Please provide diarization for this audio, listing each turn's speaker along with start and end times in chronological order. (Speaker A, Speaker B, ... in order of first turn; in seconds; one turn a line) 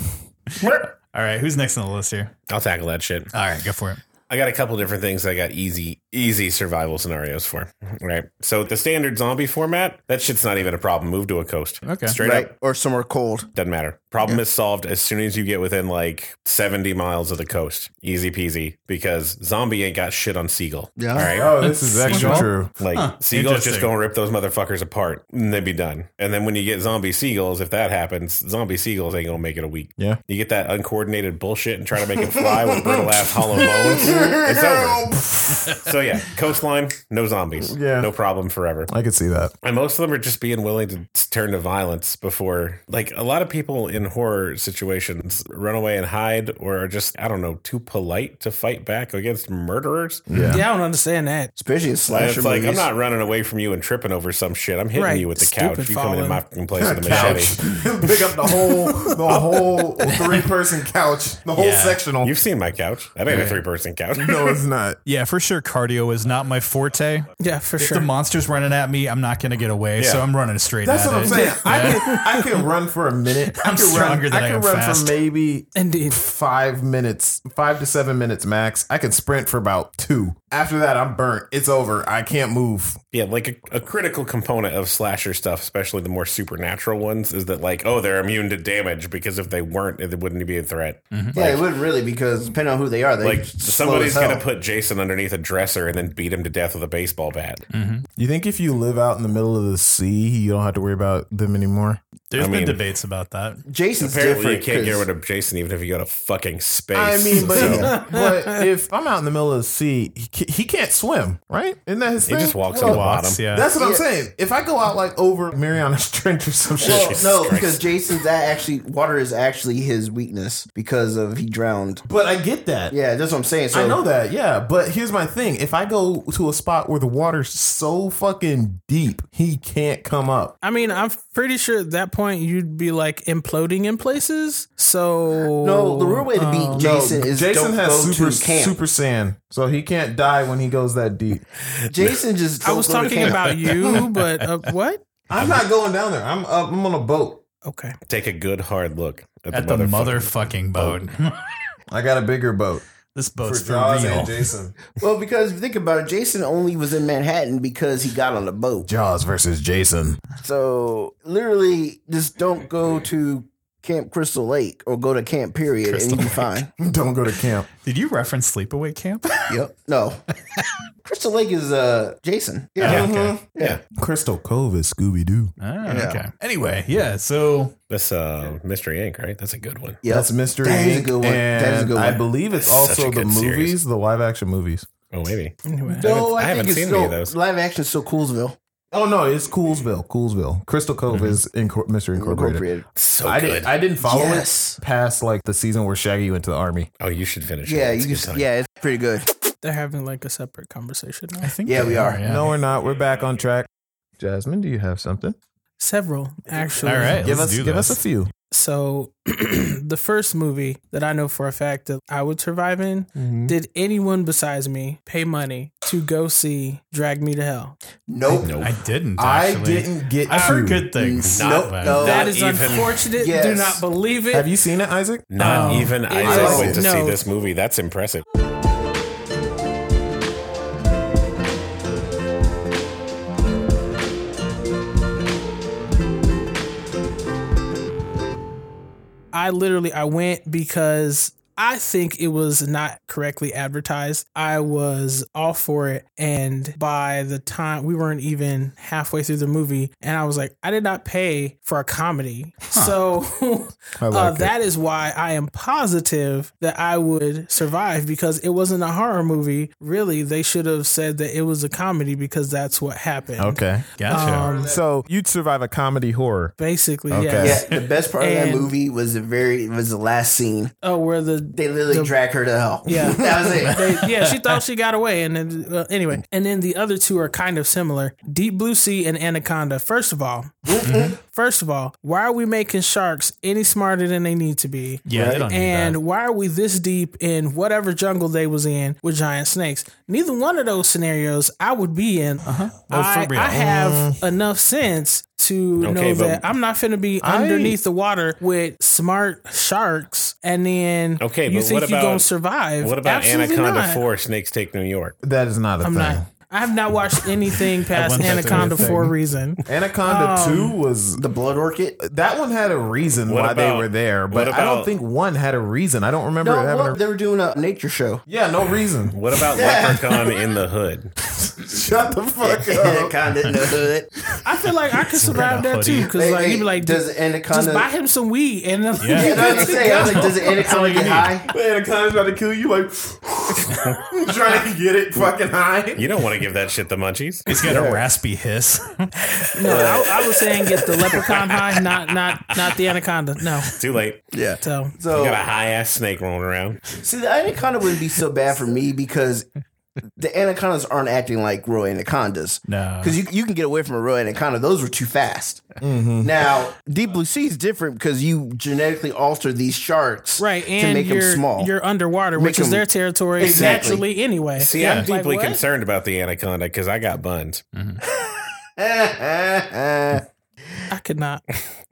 Speaker A: 0.6-0.9
Speaker B: 1.1-2.3
Speaker C: 2.5-3.3
Speaker B: 3.3-4.0
Speaker C: 4.3-12.5
Speaker B: 11.8-12.2
Speaker A: 12.2-13.5
Speaker C: 13.5-21.5
Speaker A: 21.0-21.3
Speaker D: 21.3-22.7
Speaker B: 21.6-23.9
Speaker C: 22.1-35.1
Speaker D: 32.2-35.8
Speaker C: 35.7-38.9
Speaker D: 37.6-38.1
Speaker D: 38.9-39.5
Speaker C: 39.6-50.3
Speaker D: 50.3-50.6
Speaker B: 50.3-50.6
Speaker E: 50.4-51.5
Speaker A: 51.5-52.9
Speaker C: 52.1-57.6
Speaker E: 54.9-56.4
Speaker D: 56.8-62.4
Speaker B: 57.1-57.5
Speaker B: 60.1-60.4
Speaker B: 61.5-62.0
Speaker C: 62.2-64.6
Speaker B: 63.3-63.6
Speaker D: 64.2-65.0
Speaker B: 65.0-72.2
Speaker E: 67.4-68.1
Speaker C: 70.0-70.2
Speaker D: 70.8-83.0
Speaker B: 73.5-75.2
Speaker E: 75.7-76.2
Speaker C: 83.1-91.6
Speaker B: 91.1-91.4
Speaker A: 91.3-94.4
Speaker C: 93.2-97.6
Speaker B: 97.7-98.0
Speaker D: 98.2-102.0
Speaker B: 102.3-103.6
Speaker C: 102.3-102.8
Speaker A: 103.7-105.1
Speaker C: 104.0-107.9
Speaker D: 106.9-117.6
Speaker E: 107.6-108.7
Speaker C: 112.2-113.4
Speaker B: 112.8-113.7
Speaker A: 113.8-114.0
Speaker C: 116.8-117.8
Speaker A: 116.8-122.0
Speaker D: 122.1-122.9
Speaker A: 122.9-124.0
Speaker D: 123.7-130.5
Speaker E: 130.6-137.0
Speaker A: 135.6-138.8
Speaker D: 136.7-141.5
Speaker A: 141.9-143.7
Speaker E: 142.6-145.0
Speaker B: 143.5-144.7
Speaker D: 145.3-147.4
Speaker C: 145.4-145.6
Speaker E: 147.6-148.0
Speaker C: 148.1-150.4
Speaker B: 149.5-151.4
Speaker D: 151.9-152.8
Speaker B: 153.1-154.5
Speaker D: 153.4-154.8
Speaker A: 155.0-158.9
Speaker D: 158.8-160.2
Speaker A: 160.4-166.7
Speaker B: 165.8-166.6
Speaker D: 166.8-167.7
Speaker B: 167.8-169.6
Speaker A: 169.5-170.2
Speaker A: 171.0-173.8
Speaker B: 172.8-173.3
Speaker C: 172.8-173.8
Speaker D: 172.8-175.5
Speaker B: 175.6-177.7
Speaker A: 175.8-176.2
Speaker C: 177.9-180.0
Speaker A: 180.0-182.2
Speaker D: 180.1-184.9
Speaker C: 182.6-183.8
Speaker C: 185.1-187.3
Speaker E: 185.7-186.1
Speaker A: 185.9-188.6
Speaker D: 188.9-192.7
Speaker B: 191.1-191.4
Speaker A: 192.1-192.9
Speaker C: 192.9-193.7
Speaker D: 193.2-196.9
Speaker A: 194.0-194.8
Speaker C: 197.0-198.5
Speaker A: 197.6-199.4
Speaker E: 199.6-201.6
Speaker B: 201.4-202.5
Speaker A: 201.7-202.2
Speaker D: 202.2-203.7
Speaker D: 204.2-205.3
Speaker E: 205.8-207.3
Speaker B: 206.8-208.0
Speaker D: 207.1-208.3
Speaker E: 208.5-217.8
Speaker C: 213.2-213.5
Speaker A: 218.1-218.7
Speaker C: 218.3-218.8
Speaker B: 218.5-222.1
Speaker D: 219.2-220.9
Speaker A: 220.9-222.3
Speaker C: 221.2-223.0
Speaker E: 221.9-224.5
Speaker A: 223.1-223.8
Speaker D: 224.3-225.4
Speaker C: 225.3-228.2
Speaker E: 225.4-227.2
Speaker B: 225.4-225.9
Speaker D: 226.2-226.8
Speaker A: 226.2-226.8
Speaker E: 239.3-264.8
Speaker D: 254.0-254.5
Speaker D: 263.4-263.9
Speaker B: 264.0-264.5
Speaker A: 264.2-264.7
Speaker D: 264.5-266.5
Speaker E: 266.6-267.6
Speaker D: 267.1-267.6
Speaker A: 267.4-270.7
Speaker E: 268.2-268.7
Speaker E: 270.8-272.1
Speaker A: 271.5-273.8
Speaker E: 272.9-304.0
Speaker B: 273.6-274.6
Speaker A: 280.7-281.1
Speaker B: 280.8-281.1
Speaker B: 285.1-286.0
Speaker B: 292.4-293.8
Speaker D: 293.6-294.2
Speaker C: 295.8-296.4
Speaker D: 297.2-297.8
Speaker C: 301.2-302.3
Speaker C: 302.8-305.2
Speaker D: 305.2-306.3
Speaker E: 305.8-310.8
Speaker B: 307.9-309.1
Speaker D: 308.1-309.1
Speaker D: 309.7-311.2
Speaker A: 311.1-312.0
Speaker D: 312.0-317.0
Speaker C: 313.3-314.9
Speaker A: 316.4-318.2
Speaker D: 318.3-319.2
Speaker C: 319.1-321.1
Speaker A: 319.5-320.3
Speaker D: 321.4-323.8
Speaker A: 322.4-324.1
Speaker E: 324.4-330.6
Speaker B: 325.1-326.1
Speaker A: 326.1-327.9
Speaker B: 329.0-329.3
Speaker A: 329.1-331.5
Speaker D: 329.2-330.2
Speaker B: 329.9-331.4
Speaker D: 331.5-336.3
Speaker C: 335.9-337.5
Speaker B: 337.5-339.1
Speaker A: 337.6-338.0
Speaker E: 339.5-343.7
Speaker A: 339.6-341.2
Speaker C: 341.2-342.7
Speaker C: 343.7-344.2
Speaker A: 344.3-345.4
Speaker E: 344.6-345.0
Speaker C: 345.1-346.8
Speaker A: 346.9-349.5
Speaker A: 350.2-361.7
Speaker B: 352.6-353.2
Speaker D: 355.8-356.3
Speaker E: 360.4-365.6
Speaker A: 362.4-364.0
Speaker D: 363.4-363.9
Speaker C: 364.6-367.6
Speaker B: 364.8-365.1
Speaker B: 367.7-368.0
Speaker A: 368.8-370.2
Speaker E: 370.9-371.4